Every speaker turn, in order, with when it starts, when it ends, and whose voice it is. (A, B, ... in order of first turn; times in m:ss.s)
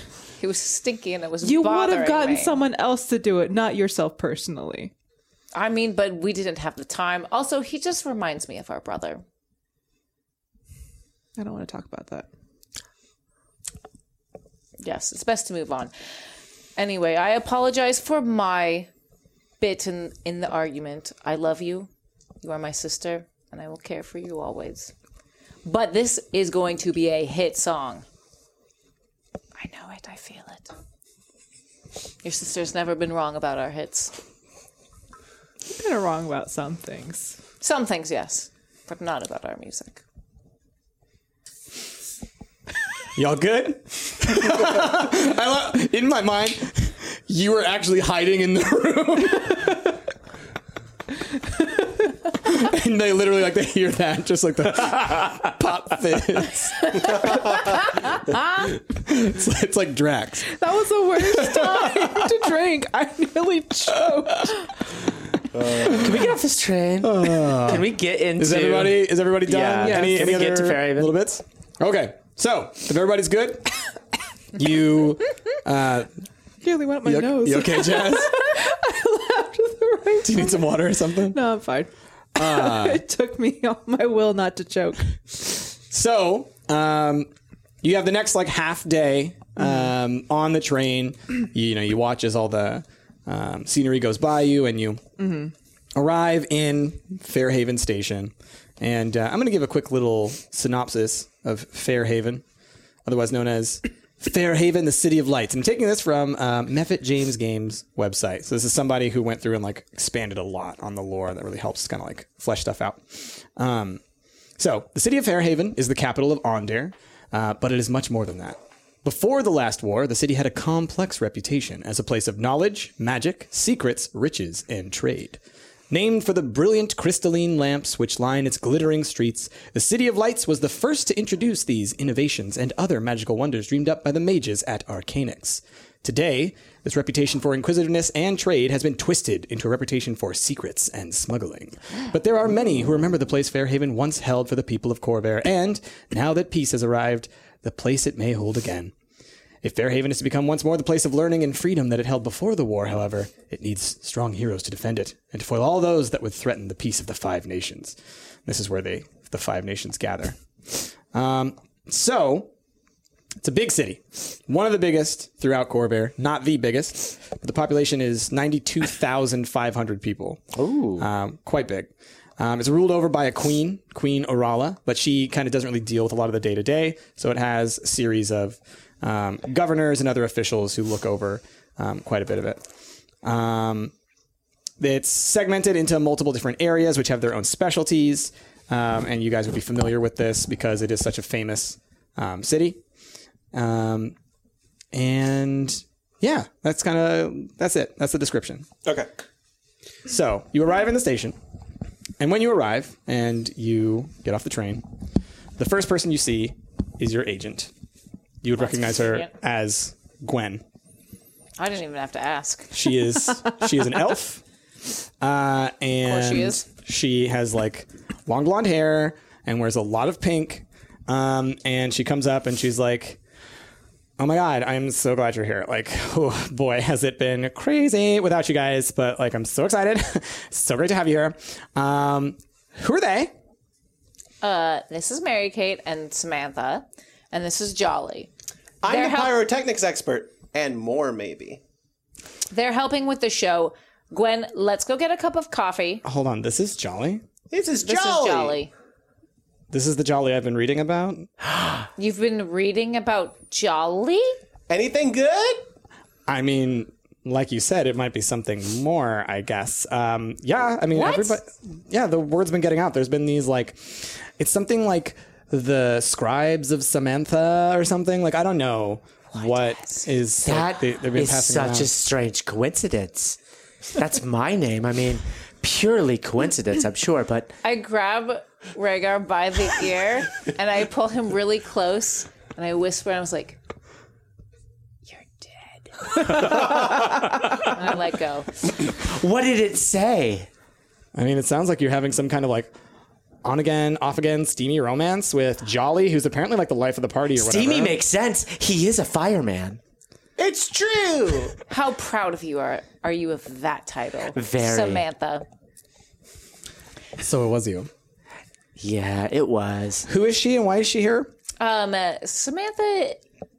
0:00.4-0:02.6 A
0:01.4-0:04.9 B
0:05.5-0:09.2 A
0:11.4-0:12.3 B
0:14.8-0:15.9 A
0:16.8-0:18.9 A
0:19.6-0:21.9 A
0:22.4-0:24.9 A
0:25.6-0:28.1 A
0:29.6-0:30.7 A
0:32.2-0:34.1 A
0:35.6-0:37.4 B
0:37.6-0:40.0 A
0:43.1-0:49.9 C
0:52.3-1:00.5 C
1:00.4-1:04.7 B
1:01.2-1:02.3 C
1:05.5-1:06.1 D
1:05.6-1:11.2 E
1:07.0-1:13.9 C
1:09.8-1:10.2 B
1:14.5-1:16.1 C
1:16.6-1:25.1 B
1:17.0-1:18.4 C
1:20.2-1:21.4 C
1:22.4-1:23.0 C
1:25.9-1:27.3 C
1:27.8-1:35.1 C
1:35.2-1:35.5 B
1:35.9-1:42.4 C
1:43.0-1:54.0 C
1:54.6-2:05.4 C
2:05.9-2:28.9 C
2:29.6-2:42.5 C
2:43.4-2:50.5 C
2:50.6-2:51.1 E
2:51.0-3:02.6 C
3:03.2-3:03.9 C
3:04.8-3:12.8 C
3:13.5-3:14.1 C
3:14.9-3:18.7 C
3:20.1-3:21.4 C
3:22.2-3:24.8 C
3:25.6-3:27.7 C
3:28.4-3:30.6 C
3:28.6-3:29.3 A
3:31.6-3:32.7 A
3:32.7-3:34.4 C
3:35.2-3:43.2 C
3:36.0-3:36.7 A
3:44.2-3:53.3 C
3:54.4-3:58.3 A
3:58.8-4:01.6 D
3:58.8-3:59.4 A
4:02.5-4:06.0 A
4:06.0-4:07.2 C
4:07.5-4:08.6 D
4:07.8-4:08.7 A
4:09.7-4:11.3 C
4:12.0-4:14.4 A
4:14.7-4:15.6 D
4:16.3-4:31.9 C
4:20.9-4:21.4 A
4:29.3-4:30.0 A
4:30.4-4:33.4 E
4:33.9-4:37.5 E
4:37.6-4:43.6 A
4:45.1-4:47.0 A
4:47.6-4:48.5 A
4:48.9-4:50.5 E
4:51.1-4:52.7 C
4:53.4-4:58.0 C
4:57.4-4:59.8 E
5:00.4-5:01.6 D
5:01.7-5:05.4 A
5:04.3-5:05.0 E
5:07.2-5:07.9 C
5:08.8-5:10.1 E
5:10.1-5:11.3 C
5:11.6-5:13.2 A